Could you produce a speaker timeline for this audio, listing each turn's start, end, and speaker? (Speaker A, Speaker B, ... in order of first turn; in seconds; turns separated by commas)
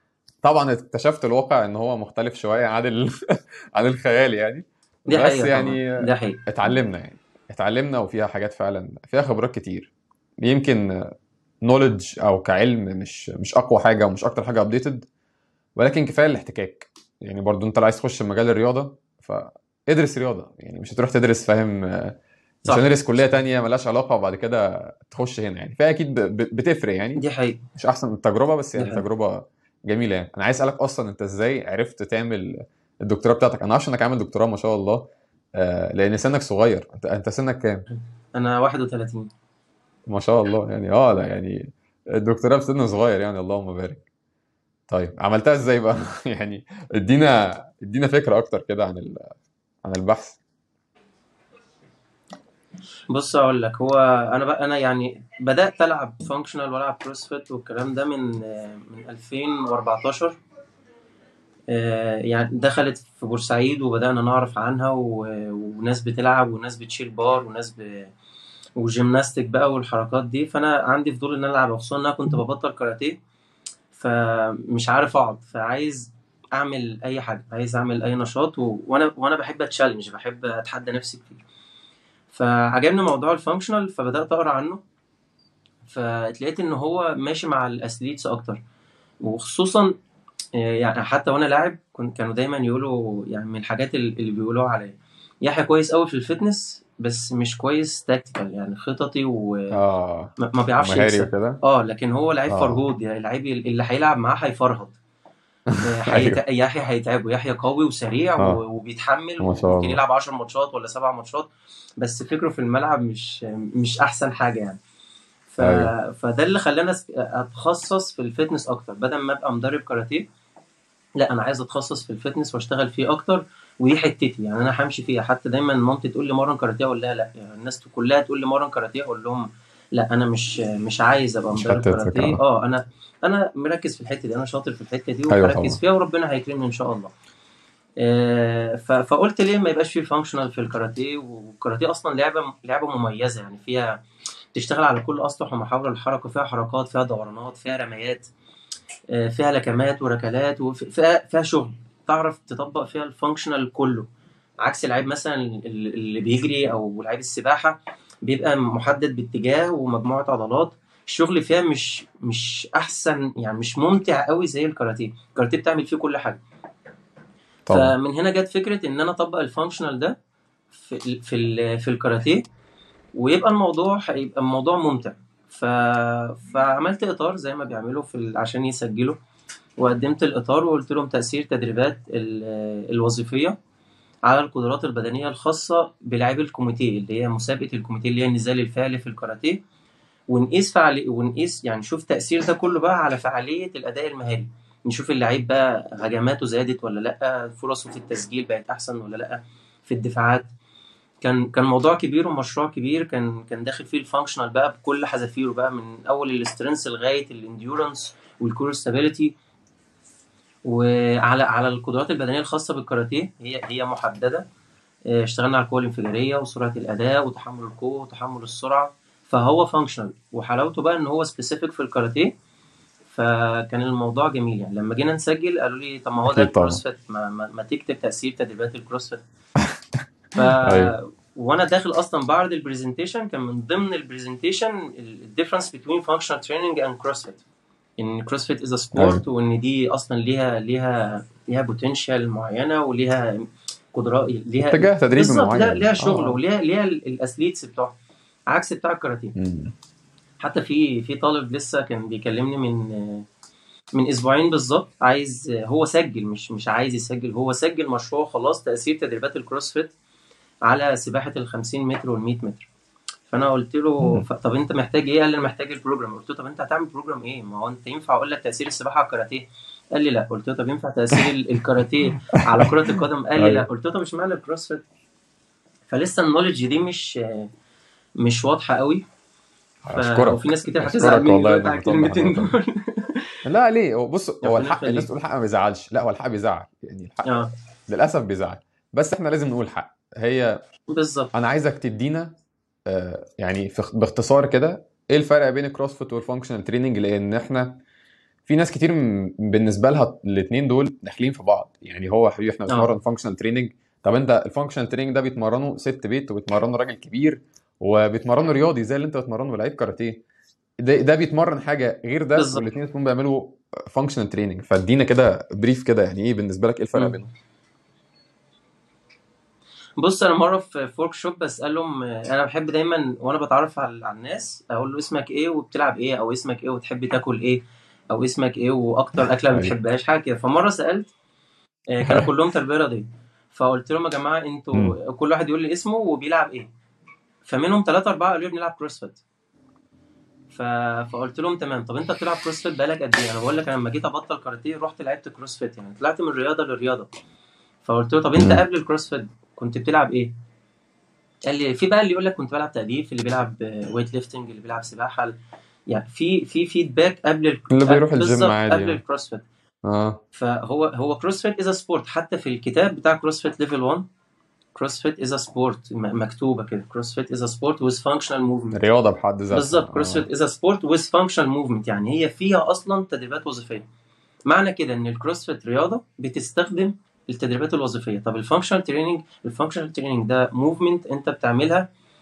Speaker A: 0.4-15.1, Speaker B: 5.1-6.4, Speaker A: 15.8-22.1, Speaker A: 22.7-27.2, Speaker B: 27.2-27.6, Speaker A: 27.7-37.9, Speaker B: 28.8-29.0, Speaker B: 37.9-39.3, Speaker A: 40.1-44.0, Speaker A: 44.9-50.4, Speaker B: 53.1-60.4, Speaker B: 61.7-68.1, Speaker B: 68.8-73.2, Speaker B: 73.9-81.4, Speaker B: 82.3-84.8, Speaker B: 85.9-88.6, Speaker B: 89.2-89.9, Speaker B: 90.6-99.7, Speaker A: 99.7-101.6, Speaker B: 100.4-105.0, Speaker A: 102.5-102.8, Speaker A: 105.7-106.4, Speaker B: 105.8-114.8, Speaker A: 109.4-110.0, Speaker B: 115.5-120.2, Speaker A: 115.6-115.9, Speaker B: 121.2-137.1, Speaker A: 131.5-132.4, Speaker A: 135.3-135.8, Speaker B: 138.0-144.0, Speaker B: 144.5-148.3, Speaker B: 149.1-154.1, Speaker B: 154.6-166.4, Speaker A: 167.7-167.9, Speaker B: 167.7-170.2, Speaker B: 170.7-172.4, Speaker B: 173.1-179.2, Speaker B: 179.8-183.6, Speaker B: 184.3-189.6, Speaker B: 190.3-200.5, Speaker B: 201.2-209.3, Speaker B: 210.7-214.4, Speaker B: 215.1-222.3, Speaker B: 223.1-229.2, Speaker A: 226.3-226.8, Speaker B: 230.3-237.4, Speaker A: 230.5-230.9, Speaker B: 238.0-247.9, Speaker A: 238.9-239.2, Speaker A: 244.6-246.4, Speaker B: 248.5-249.3, Speaker A: 249.3-249.7, Speaker B: 250.4-253.2, Speaker B: 253.9-259.9, Speaker B: 260.6-262.7, Speaker B: 263.3-274.8, Speaker A: 272.3-273.6, Speaker B: 275.9-277.5, Speaker B: 278.2-279.0, Speaker A: 279.8-282.5, Speaker B: 279.9-283.4, Speaker A: 283.4-287.3, Speaker B: 284.4-285.1, Speaker B: 287.2-287.5, Speaker A: 287.9-290.6, Speaker B: 290.9-291.3, Speaker A: 291.3-292.3, Speaker A: 292.9-297.8, Speaker A: 298.5-310.2, Speaker B: 302.7-302.9, Speaker A: 310.8-317.3, Speaker B: 312.3-312.6, Speaker B: 320.0-331.1, Speaker B: 331.9-336.7, Speaker B: 337.4-339.2, Speaker B: 340.5-347.1, Speaker B: 347.8-350.3, Speaker B: 351.4-355.3, Speaker B: 355.9-359.4, Speaker A: 357.7-359.0, Speaker A: 359.8-360.2, Speaker B: 360.3-364.0, Speaker B: 364.7-368.8, Speaker A: 368.7-370.3, Speaker B: 369.5-373.8, Speaker B: 374.5-381.9